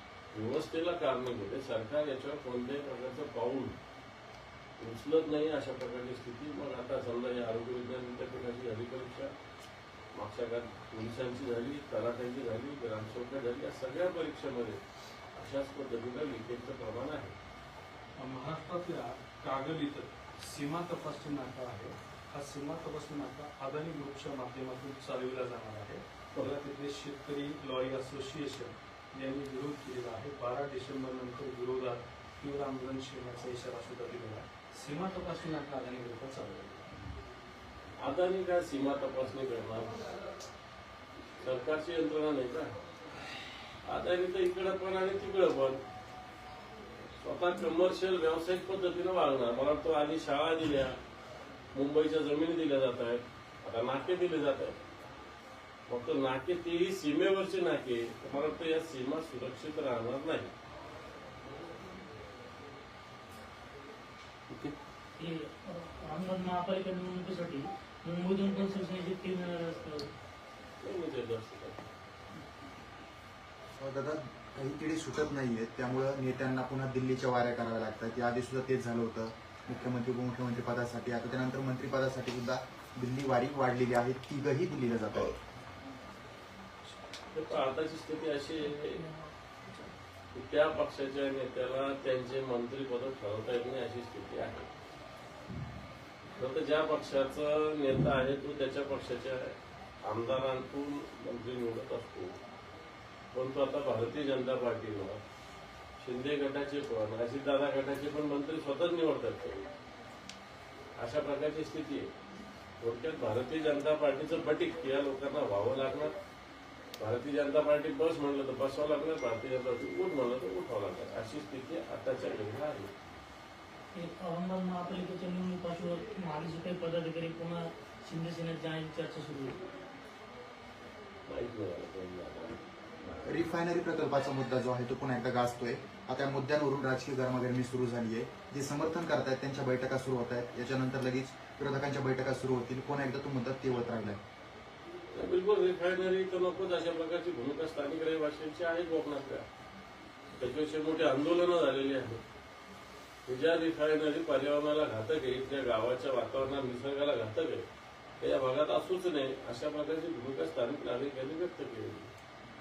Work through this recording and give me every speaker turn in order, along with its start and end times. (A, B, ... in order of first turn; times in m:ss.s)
0:00.3-0:03.8 A
0:04.8-0:09.3 A
0:10.1-0:14.8 A
0:15.4-0:17.4 A
0:18.2-0:36.8 B
0:38.0-0:40.0 A
0:41.4-0:42.7 A
0:43.9-0:45.8 A
0:47.2-0:51.0 A
0:51.7-0:54.8 A
0:55.9-1:00.5 A
1:05.2-1:10.1 C
1:10.8-1:11.8 A
1:13.8-1:25.4 D
1:27.3-1:29.0 A
1:28.8-1:29.2 C
1:30.3-1:34.7 A
1:36.4-1:42.3 A
1:43.3-1:45.2 A
1:46.0-1:49.6 A
1:51.0-1:52.1 A
1:52.8-1:56.1 A
1:57.0-2:02.9 A
2:03.9-2:09.6 C
2:11.3-2:12.6 A
2:13.2-2:24.2 D
2:25.1-2:29.5 A
2:30.4-2:32.2 A
2:33.3-2:37.7 A
2:38.2-2:42.1 A